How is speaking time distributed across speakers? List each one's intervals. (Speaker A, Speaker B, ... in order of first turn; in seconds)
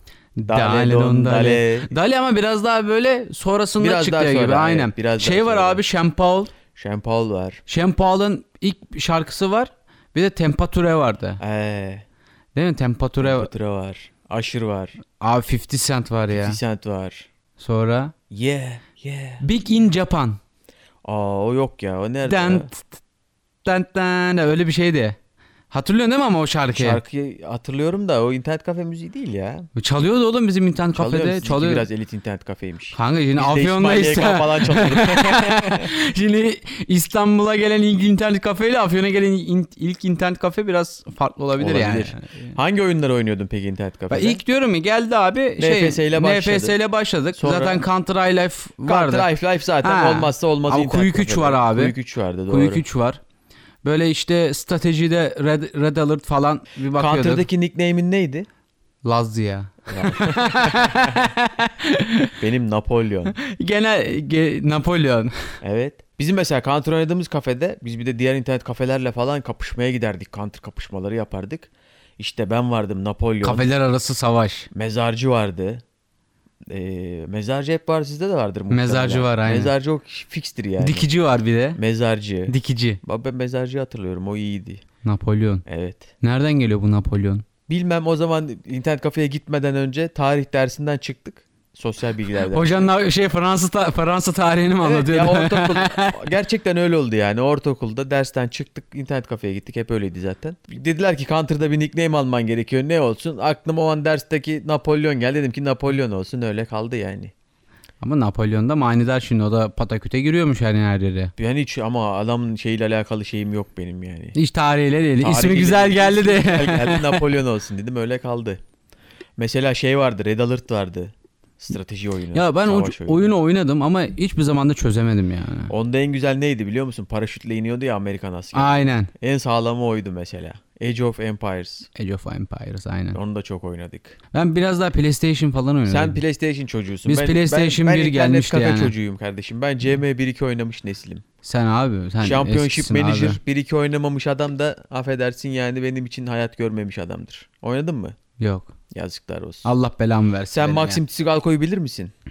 Speaker A: 0.4-6.5, 7.7-11.4, 12.5-13.5, 15.2-16.6, 17.6-18.1, 19.4-20.4, 22.2-23.0, 23.6-25.2, 25.7-27.0, 29.8-31.9, 32.9-42.6, 44.1-49.3, 49.8-52.0, 52.5-53.2, 53.8-57.5, 59.0-62.3, 63.3-65.3, 73.4-74.7, 78.7-79.7, 80.8-81.8, 82.5-83.0, 85.0-85.6, 86.2-87.4, 92.5-96.2, 108.0-111.3, 114.3-117.2, 122.3-125.7, 128.5-129.1, 131.9-133.2, 134.3-136.2, 137.0-138.9, 141.4-143.4, 148.4-148.7, 149.6-151.0
Speaker B: 0.5-1.9, 3.8-5.8, 6.7-7.6, 11.4-12.0, 13.2-15.0, 16.3-17.3, 18.3-19.4, 21.0-22.7, 26.7-29.7, 30.9-35.9, 41.5-44.4, 45.6-46.8, 47.3-47.8, 48.8-52.8, 56.9-58.5, 59.9-61.2, 62.4-63.4, 65.6-73.7, 74.7-75.8, 76.7-81.1, 81.8-84.8, 85.7-86.1, 87.7-92.9, 94.8-107.3, 111.4-114.4, 115.2-118.6, 119.4-123.3, 125.7-131.9, 133.1-134.2, 135.8-141.2, 142.2-148.2, 148.9-149.7, 150.5-152.1